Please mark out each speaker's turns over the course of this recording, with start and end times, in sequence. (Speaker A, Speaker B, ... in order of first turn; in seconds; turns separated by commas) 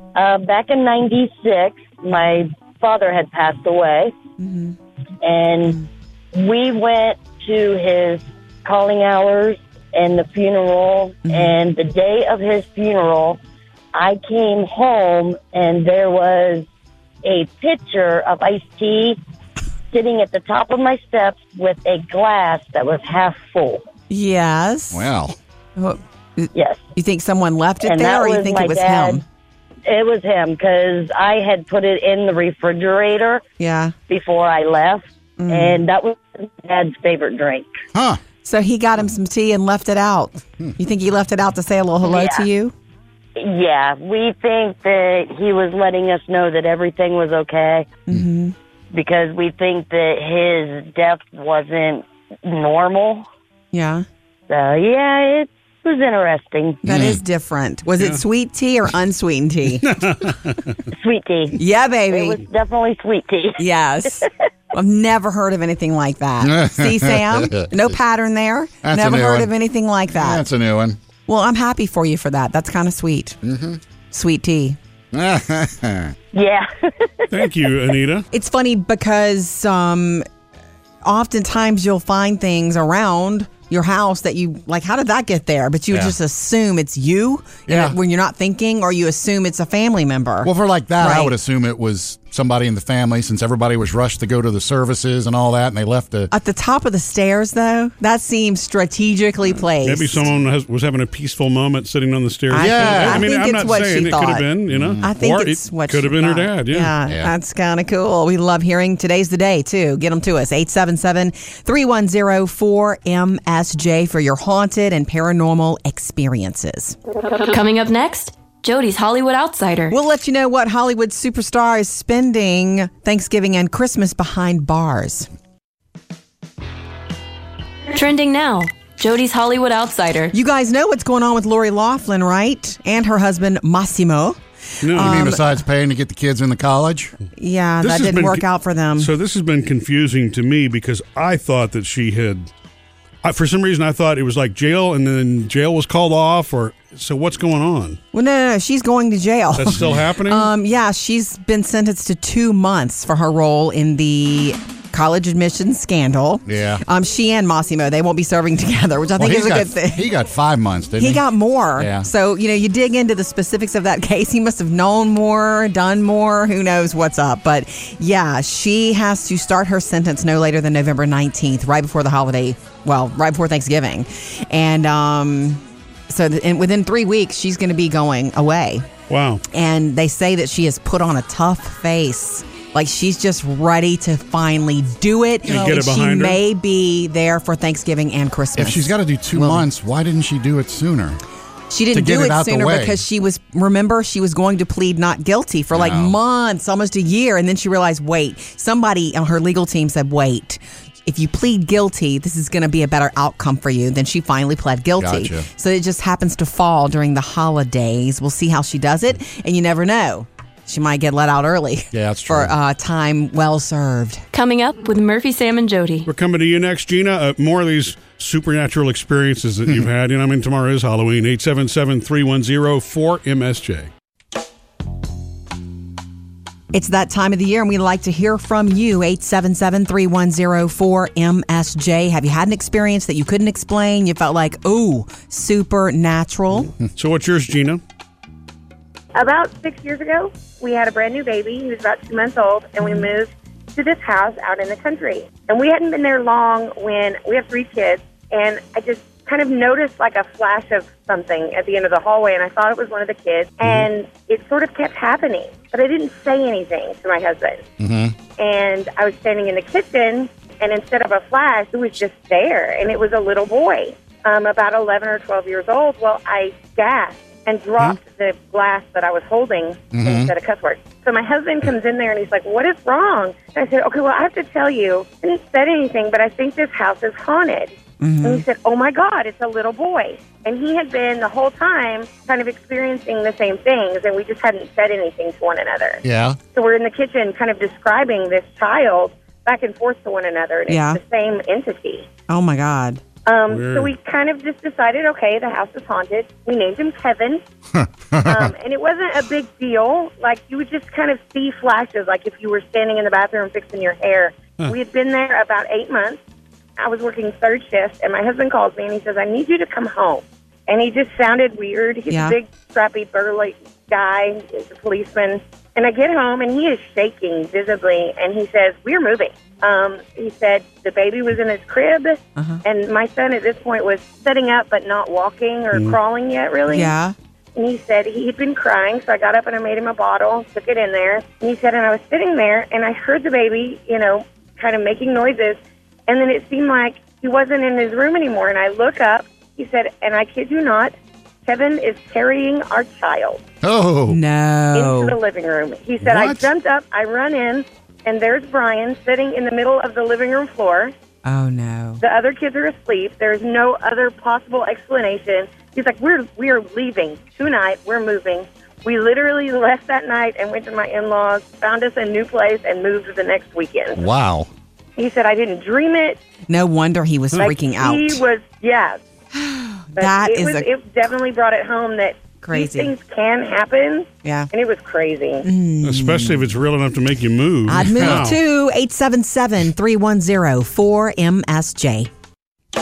Speaker A: 0.1-4.1, Speaker B: 4.4-4.7, Speaker A: 5.2-5.8, Speaker A: 6.3-13.4, Speaker A: 13.9-16.6, Speaker A: 17.2-19.2, Speaker A: 19.9-23.8, Speaker B: 24.1-25.0, Speaker C: 24.9-25.4, Speaker B: 25.8-29.2, Speaker A: 26.5-26.8, Speaker A: 27.8-29.2, Speaker A: 29.9-33.4, Speaker B: 33.6-33.9, Speaker A: 34.1-37.7, Speaker B: 35.4-35.8, Speaker C: 37.9-38.2, Speaker B: 38.4-42.7, Speaker A: 42.0-42.5, Speaker A: 43.4-47.9, Speaker B: 48.1-48.5, Speaker A: 48.9-53.2, Speaker B: 53.7-54.0, Speaker A: 54.5-56.8, Speaker B: 56.8-59.9, Speaker C: 56.9-57.2, Speaker D: 59.8-60.7, Speaker A: 60.9-63.6, Speaker B: 61.6-62.4, Speaker B: 63.6-70.4, Speaker C: 66.4-67.8, Speaker C: 68.8-69.5, Speaker C: 70.1-71.0, Speaker B: 71.3-73.4, Speaker C: 73.4-73.8, Speaker B: 74.1-74.8, Speaker C: 75.1-76.1, Speaker A: 76.3-77.5, Speaker D: 77.3-78.3, Speaker B: 78.3-80.2, Speaker B: 81.0-91.3, Speaker C: 87.7-88.0, Speaker C: 90.4-96.3, Speaker B: 96.3-100.2, Speaker D: 99.8-106.9, Speaker B: 102.5-104.5, Speaker C: 102.5-103.3, Speaker C: 104.7-105.0, Speaker B: 105.0-116.9, Speaker C: 107.1-107.3, Speaker E: 117.4-120.0, Speaker B: 119.9-125.3, Speaker E: 127.9-130.3, Speaker B: 130.3-135.5, Speaker D: 134.8-135.2, Speaker C: 134.9-137.1, Speaker B: 137.3-139.1, Speaker D: 137.8-138.4, Speaker D: 139.0-142.5, Speaker D: 143.2-148.0, Speaker B: 148.1-160.1, Speaker D: 149.6-150.5, Speaker C: 149.7-150.1, Speaker C: 156.4-156.8, Speaker C: 159.2-161.2, Speaker B: 161.0-178.9, Speaker C: 161.8-162.1, Speaker D: 179.1-179.4, Speaker B: 179.5-189.6, Speaker D: 185.4-186.4, Speaker C: 185.5-185.8, Speaker C: 188.6-191.2, Speaker B: 191.7-214.2, Speaker C: 191.9-193.0, Speaker C: 195.7-196.1, Speaker C: 205.0-205.5, Speaker C: 211.9-212.5, Speaker E: 214.3-216.1, Speaker D: 216.1-223.9, Speaker B: 226.7-236.7, Speaker D: 236.9-237.8, Speaker F: 239.1-257.6, Speaker C: 253.6-253.9, Speaker C: 257.8-258.1, Speaker F: 258.4-286.0, Speaker C: 269.9-270.3, Speaker B: 278.0-278.4, Speaker C: 286.0-286.4, Speaker F: 286.5-292.1, Speaker B: 290.7-291.0, Speaker B: 292.3-293.0, Speaker F: 293.2-297.4, Speaker D: 293.5-293.9, Speaker C: 297.7-298.5, Speaker F: 298.2-306.2, Speaker F: 306.8-326.9, Speaker B: 312.1-312.4, Speaker B: 322.4-322.6, Speaker D: 325.7-326.0, Speaker B: 326.7-327.1, Speaker F: 327.5-340.9, Speaker F: 341.4-343.4, Speaker C: 343.6-344.2, Speaker B: 344.1-345.1, Speaker F: 344.7-350.9, Speaker C: 346.0-346.5, Speaker B: 351.2-352.0, Speaker F: 352.0-364.0, Speaker C: 363.9-364.5, Speaker F: 365.0-366.2, Speaker B: 366.5-368.2, Speaker F: 367.4-369.0, Speaker B: 369.3-370.7, Speaker F: 370.0-375.4, Speaker B: 372.4-372.9, Speaker B: 374.2-374.5, Speaker B: 375.4-376.5, Speaker D: 375.8-378.4, Speaker B: 377.7-382.1